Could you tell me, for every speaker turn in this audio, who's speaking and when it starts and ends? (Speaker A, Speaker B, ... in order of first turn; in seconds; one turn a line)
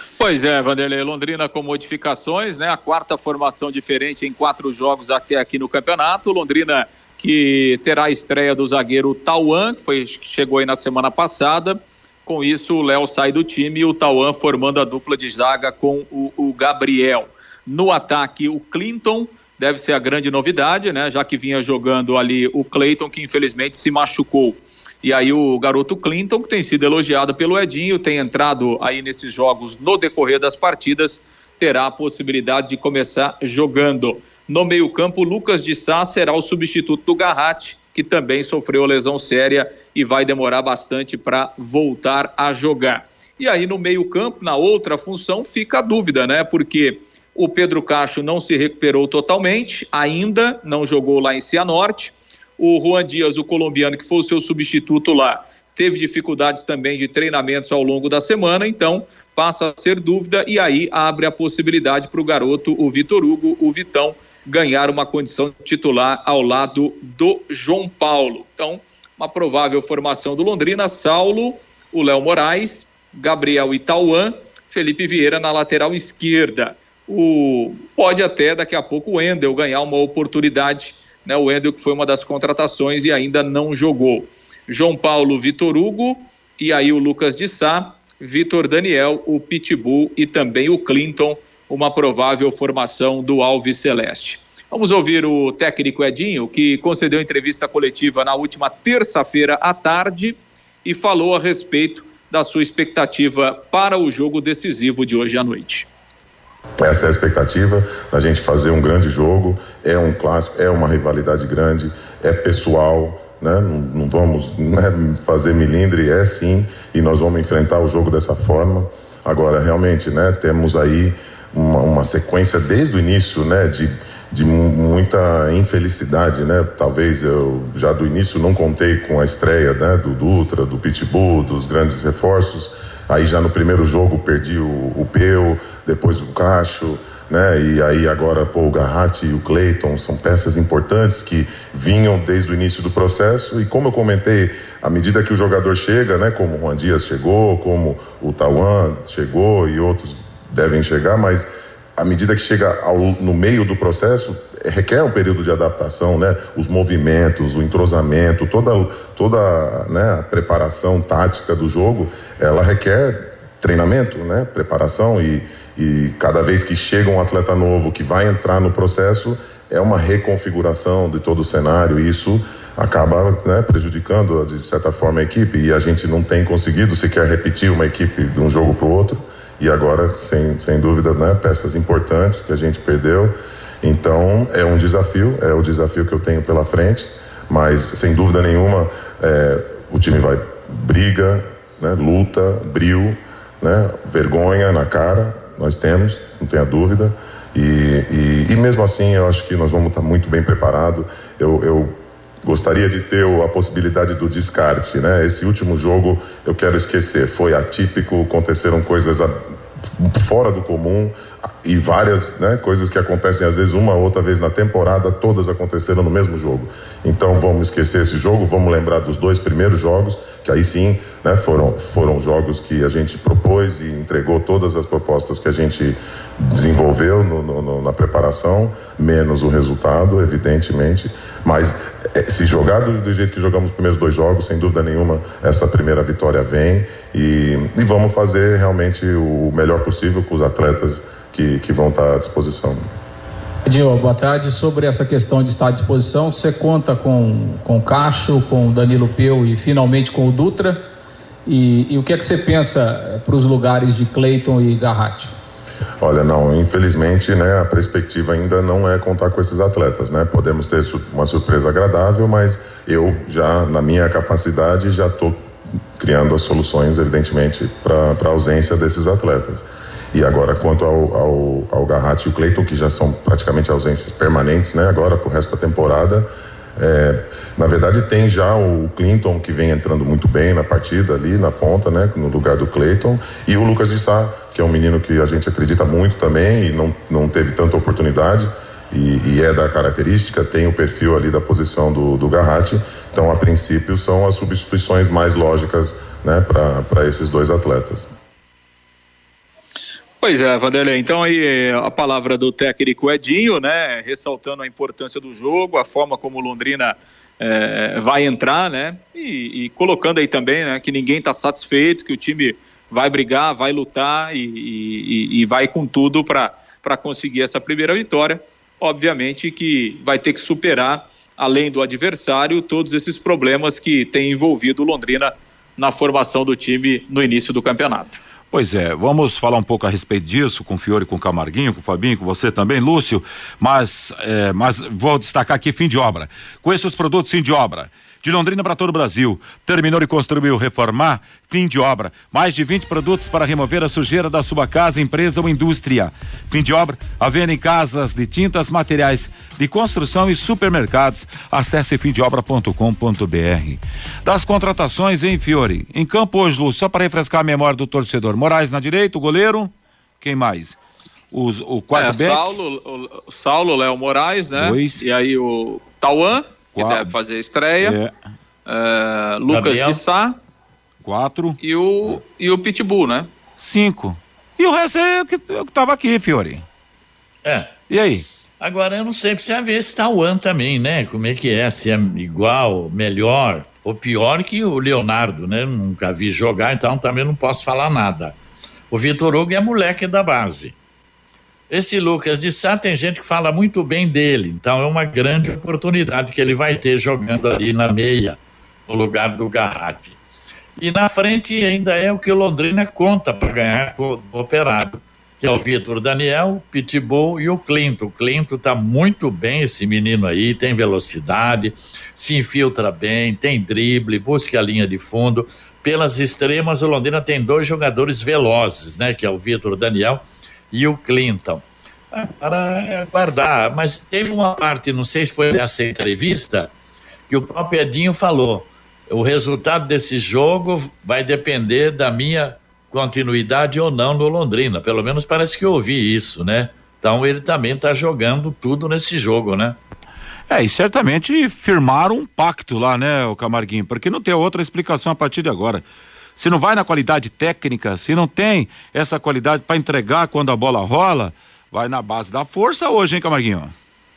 Speaker A: 0.2-105.9
Speaker B: 106.8-209.4
Speaker B: 210.0-242.8
Speaker C: 243.7-250.9
Speaker C: 251.5-255.3
Speaker B: 256.0-298.1
Speaker A: 300.2-328.2
Speaker D: 328.5-360.8
Speaker D: 361.3-362.4
Speaker A: 361.9-368.0
Speaker D: 364.6-365.0
Speaker D: 366.8-367.1
Speaker D: 367.8-368.1
Speaker A: 368.7-370.4
Speaker E: 369.5-370.0
Speaker D: 371.0-372.2
Speaker A: 371.6-373.3
Speaker D: 373.6-376.6
Speaker E: 377.4-377.7
Speaker D: 377.9-378.3
Speaker E: 378.6-388.4
Speaker E: 388.9-390.8
Speaker E: 391.7-400.2
Speaker E: 400.8-426.7
Speaker E: 427.3-439.8
Speaker D: 440.5-445.9
Speaker D: 446.4-453.7